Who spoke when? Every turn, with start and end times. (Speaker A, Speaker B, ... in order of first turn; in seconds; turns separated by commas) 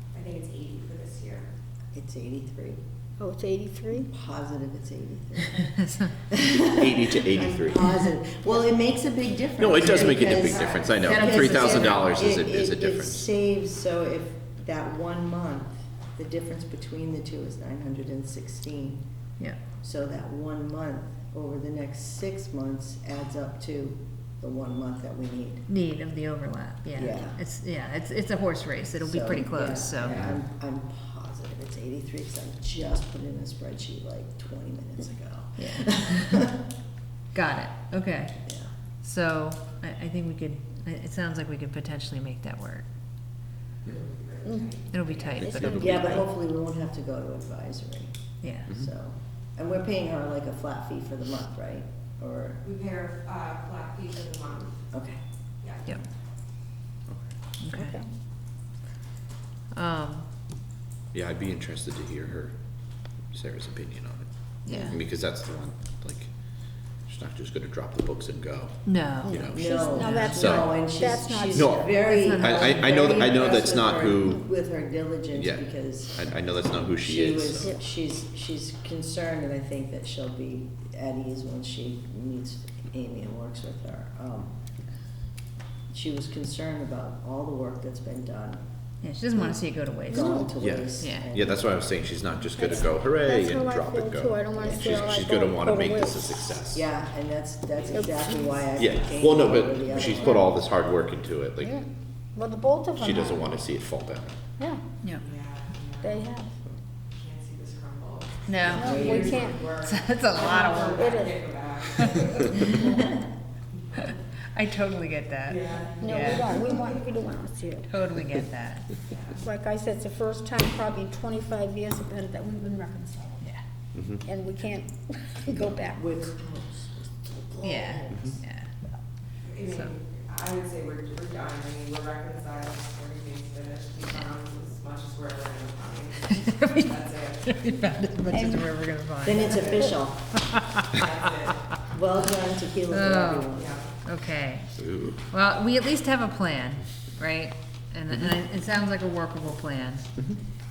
Speaker A: 0.1-1.5, Speaker B: 1.9-2.8, Speaker C: 3.2-4.1, Speaker B: 4.0-19.1, Speaker D: 6.7-8.2, Speaker D: 9.6-13.3, Speaker E: 11.0-12.2, Speaker B: 19.8-25.7, Speaker E: 25.7-30.2, Speaker B: 26.9-27.4, Speaker B: 29.0-36.6, Speaker D: 30.0-30.4, Speaker E: 35.6-36.5, Speaker E: 37.3-38.4, Speaker B: 38.5-38.7, Speaker E: 39.0-42.9, Speaker A: 43.9-45.0, Speaker C: 44.4-44.8, Speaker E: 44.9-45.6, Speaker D: 45.4-46.2, Speaker C: 45.4-46.2, Speaker B: 45.8-52.6, Speaker E: 48.4-48.7, Speaker A: 52.7-54.8, Speaker B: 54.9-55.2, Speaker A: 55.6-56.0, Speaker E: 57.6-58.0, Speaker C: 57.7-58.1, Speaker E: 59.7-60.3, Speaker D: 61.1-62.6, Speaker D: 63.3-66.3, Speaker E: 64.7-65.0, Speaker D: 67.1-70.8, Speaker E: 68.9-70.7, Speaker C: 69.3-71.7, Speaker B: 69.3-76.3, Speaker D: 71.5-74.4, Speaker E: 72.1-73.2, Speaker D: 75.3-77.7, Speaker B: 77.0-84.6, Speaker B: 85.9-88.7, Speaker E: 89.0-91.3, Speaker B: 90.1-91.6, Speaker C: 90.1-90.5, Speaker D: 90.6-96.9, Speaker C: 92.6-96.3, Speaker B: 94.6-95.0, Speaker B: 96.7-100.5, Speaker C: 97.9-98.6, Speaker D: 98.8-101.8, Speaker C: 101.6-103.5, Speaker D: 103.0-104.4, Speaker A: 105.4-106.2, Speaker C: 106.0-106.5, Speaker A: 107.2-113.0, Speaker E: 108.5-111.0, Speaker B: 108.7-109.3, Speaker C: 108.7-109.7, Speaker C: 110.9-111.5, Speaker E: 111.8-112.7, Speaker E: 114.0-116.5, Speaker A: 115.7-117.0, Speaker C: 116.0-117.9, Speaker E: 117.9-118.9, Speaker A: 119.1-119.4, Speaker C: 119.3-123.5, Speaker D: 124.0-124.2, Speaker C: 124.2-126.1, Speaker B: 125.5-128.4, Speaker E: 127.6-128.7, Speaker A: 129.6-137.6, Speaker E: 129.6-129.9, Speaker E: 136.3-136.8, Speaker E: 137.4-139.9, Speaker C: 138.3-138.7, Speaker B: 139.2-140.3, Speaker E: 140.5-141.1, Speaker A: 140.9-141.6, Speaker B: 141.9-143.8, Speaker E: 142.9-144.7, Speaker D: 144.8-145.2, Speaker E: 145.3-150.1